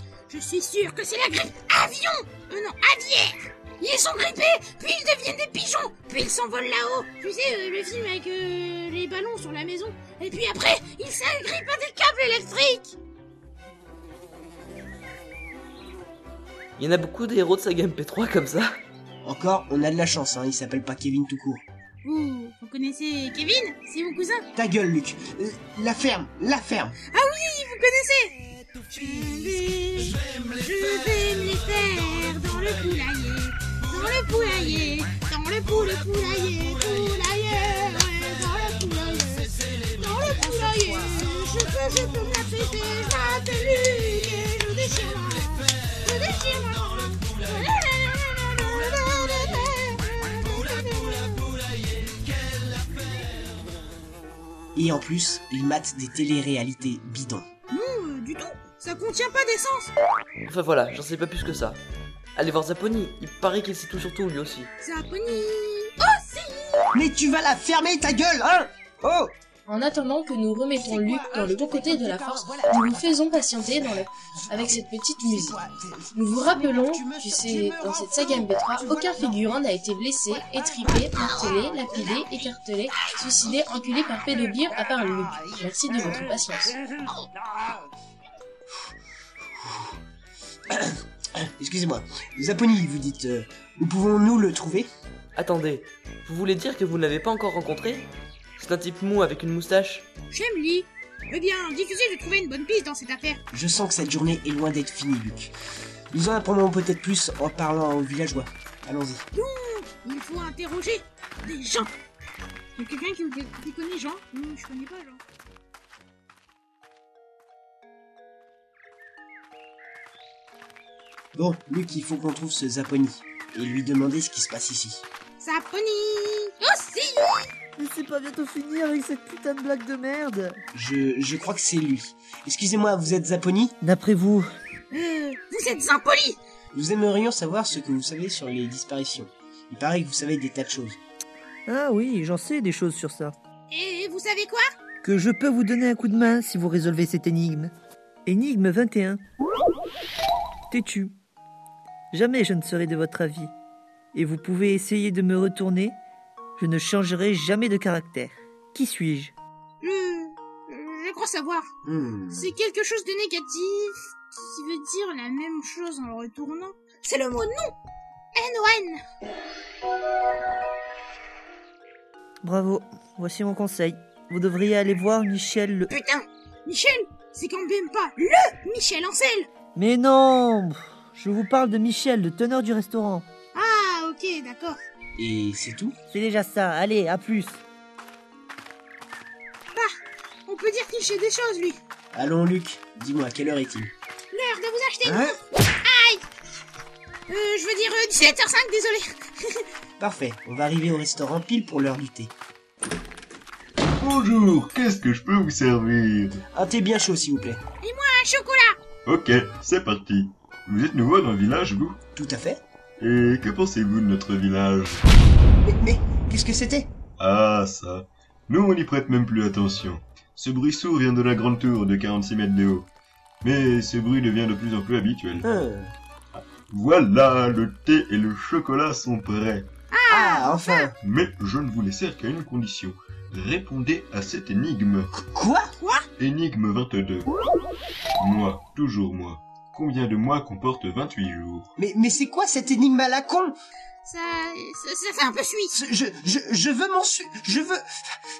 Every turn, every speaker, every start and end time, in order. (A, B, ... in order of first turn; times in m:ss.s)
0:00.3-0:13.0 A
0:16.8-0:18.8 B
0:19.2-0:21.6 C
0:22.0-0:24.4 A
0:24.5-0:27.0 C
0:27.1-0:28.4 A
0:28.9-0:51.8 A
0:52.9-0:53.4 A
0:54.7-0:57.4 C
0:57.7-0:59.9 A
1:00.4-1:01.8 B
1:02.4-1:04.7 B
1:04.8-1:06.8 A
1:06.9-1:09.3 C
1:09.6-1:15.6 D
1:10.7-1:13.0 C
1:14.4-1:19.5 C
1:16.1-1:26.8 D
1:30.7-1:34.9 C
1:35.3-1:40.0 B
1:40.3-1:43.4 A
1:43.5-1:45.5 C
1:46.1-1:49.2 C
1:49.3-1:51.9 A
1:52.8-1:55.2 A
2:01.3-2:05.0 C
2:05.4-2:07.5 A
2:07.8-2:10.6 E
2:10.7-2:13.7 C
2:13.8-2:14.5 E
2:14.9-2:16.4 A
2:16.7-2:21.0 C
2:21.6-2:23.3 E
2:23.7-2:24.7 A
2:25.0-2:27.7 E
2:28.2-2:29.2 E
2:30.7-2:31.1 E
2:32.1-2:33.5 E
2:34.1-2:36.0 E
2:36.6-2:39.3 E
2:39.8-2:41.7 A
2:41.8-2:42.5 C
2:42.3-2:47.7 A
2:48.3-2:49.0 A
2:52.4-2:55.9 E
2:55.9-2:59.5 A
2:59.7-3:03.3 E
3:03.5-3:04.8 A
3:05.2-3:05.9 C
3:06.1-3:07.6 E
3:10.4-3:11.8 A
3:12.1-3:13.9 C
3:14.3-3:16.2 A
3:15.0-3:15.4 C
3:17.3-3:19.6 A
3:20.0-3:22.3 C
3:24.0-3:26.4 F
3:26.5-3:27.6 C
3:27.8-3:28.8 A
3:29.0-3:32.0 F
3:32.1-3:32.6 C
3:33.0-3:35.0 F
3:35.7-3:36.9 C
3:37.2-3:42.9 F
3:43.4-3:45.4 F
3:45.4-3:45.9 C
3:46.4-3:49.7 F
3:49.9-3:50.9 A
3:50.1-3:50.9 C
3:51.0-3:55.1 F
3:55.1-3:55.7 C
3:55.8-3:56.1 A
3:56.2-3:57.3 F
3:58.2-4:01.7 F
4:01.8-4:03.6 C
4:04.0-4:05.7 A
4:05.7-4:07.8 C